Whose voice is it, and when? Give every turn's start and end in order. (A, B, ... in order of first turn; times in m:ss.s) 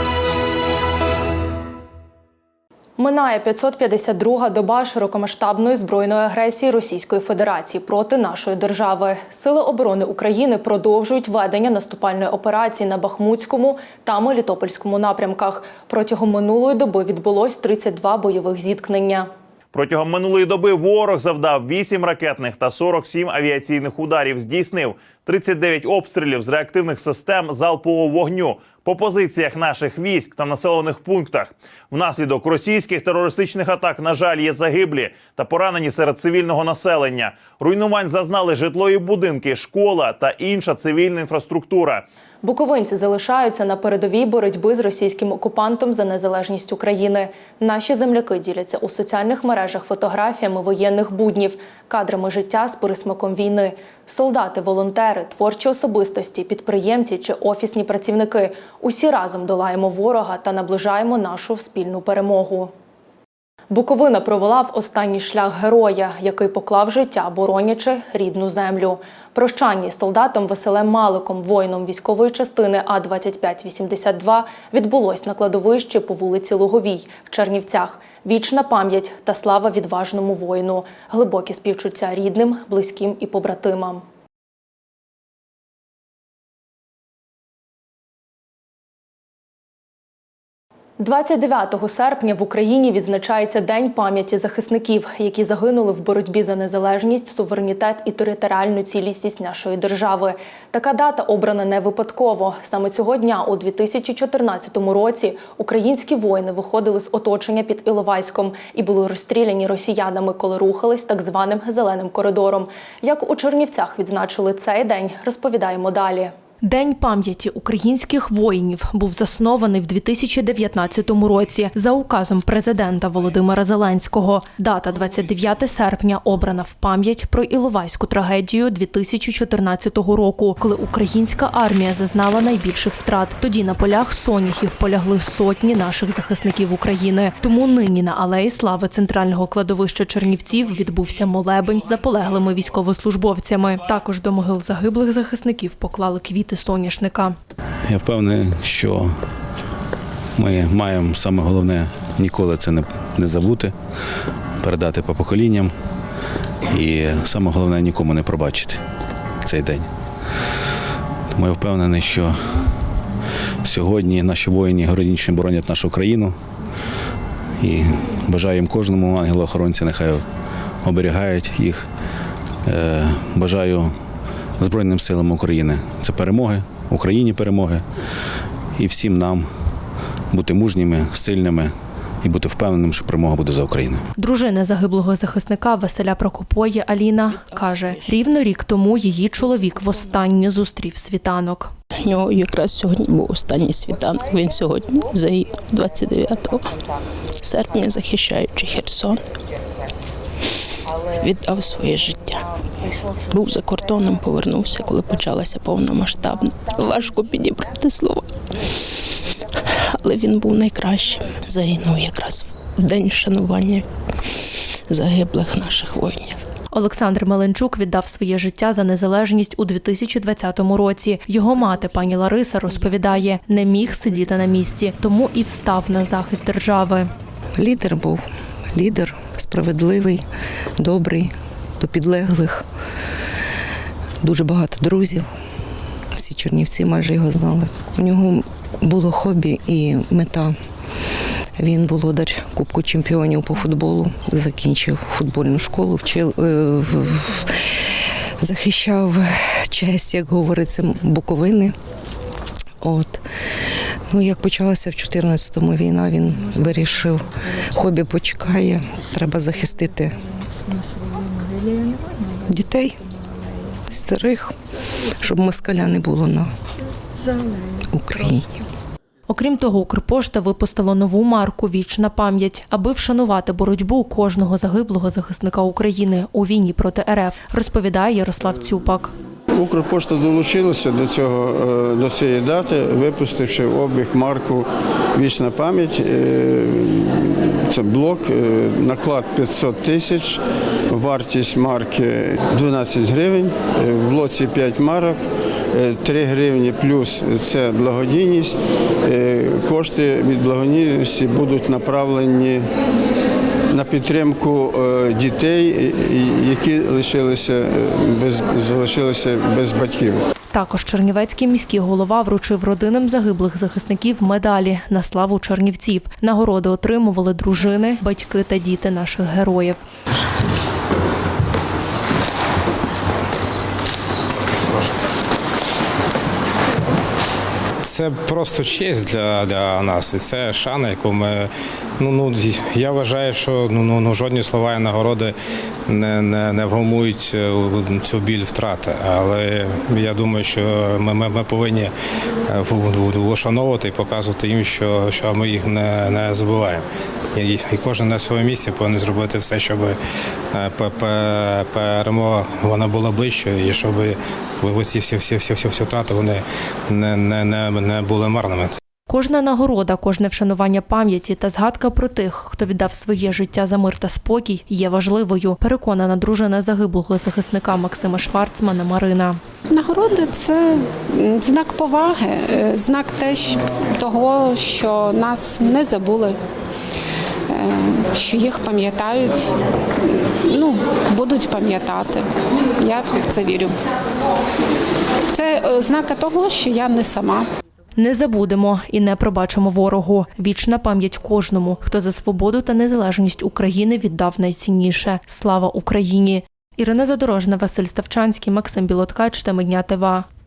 0:03.0-0:19.3 A
0:19.7-0:42.0 B
0:42.4-1:02.7 A
1:03.7-1:24.0 A
1:31.0-2:27.4 A
2:27.9-2:29.0 C
2:30.4-2:33.7 C
2:34.6-2:35.7 C
2:36.8-2:38.8 C
2:39.4-2:39.8 C
2:41.4-2:42.3 C
2:43.7-2:46.3 C
2:47.6-2:50.2 C
2:50.8-2:51.8 C
2:52.7-2:53.9 C
2:54.6-2:57.8 C
2:58.8-2:59.4 C
3:00.3-3:01.7 C
3:02.2-3:04.0 C
3:04.2-3:11.7 A
3:07.5-3:08.1 D
3:12.0-3:16.6 D
3:17.4-3:19.2 D
3:21.2-3:22.4 D
3:23.3-3:28.2 D
3:30.0-3:33.8 D
3:34.9-3:36.4 D
3:36.7-3:47.1 A
3:47.6-3:50.2 E
3:50.8-3:52.6 E
3:54.2-3:55.3 E
3:56.2-4:00.5 E
4:01.6-4:07.5 E
4:08.4-4:11.7 E
4:12.8-4:13.2 E
4:14.1-4:20.2 E
4:22.5-4:23.0 E
4:23.9-4:24.5 E
4:25.2-4:26.5 E
4:27.9-4:28.5 E
4:29.3-4:39.1 A
4:39.6-4:44.6 F
4:45.2-4:46.9 F
4:47.7-4:50.4 F
4:50.9-4:55.2 F
4:55.7-4:58.5 F
4:59.1-5:02.6 F
5:03.7-5:10.2 F
5:10.5-5:19.8 A
5:27.8-5:35.3 G
5:35.9-5:41.9 G
5:42.5-5:46.8 G
5:47.4-5:50.0 G
5:50.5-5:58.7 G
5:59.1-6:09.4 A
6:09.7-6:16.4 H
6:17.5-6:19.5 H
6:20.1-6:22.3 H
6:22.8-6:23.7 H
6:25.3-6:27.5 H
6:28.0-6:40.2 A